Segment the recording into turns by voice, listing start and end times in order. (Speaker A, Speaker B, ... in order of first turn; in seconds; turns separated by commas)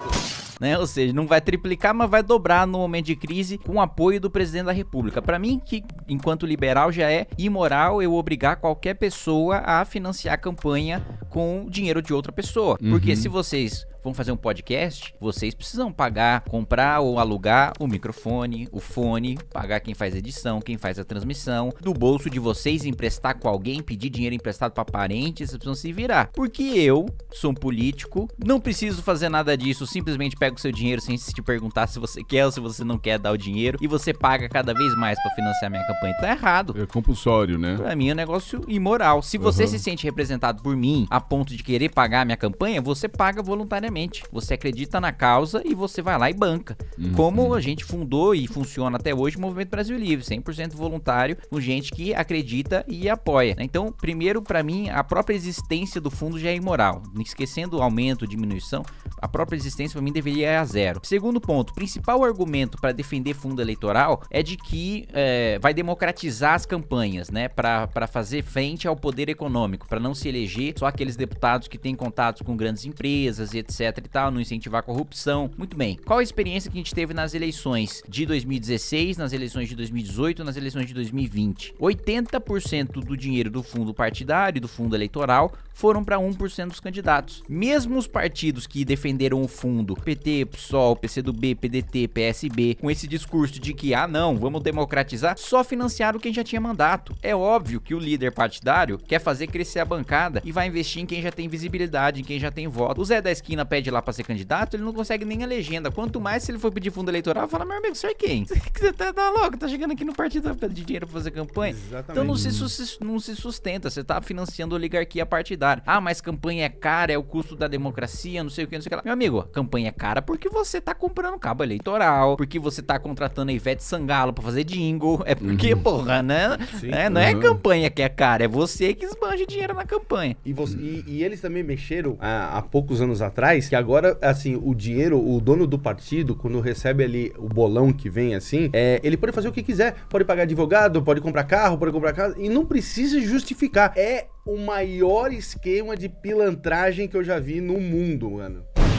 Speaker A: 0.6-36.8, Speaker B: 12.8-13.3, Speaker B: 36.7-37.8, Speaker A: 37.8-130.4, Speaker B: 39.4-39.8, Speaker B: 47.0-47.6, Speaker C: 111.6-112.4, Speaker B: 112.2-112.7, Speaker B: 125.4-125.8, Speaker C: 126.7-127.1, Speaker B: 127.1-127.6, Speaker C: 130.4-148.7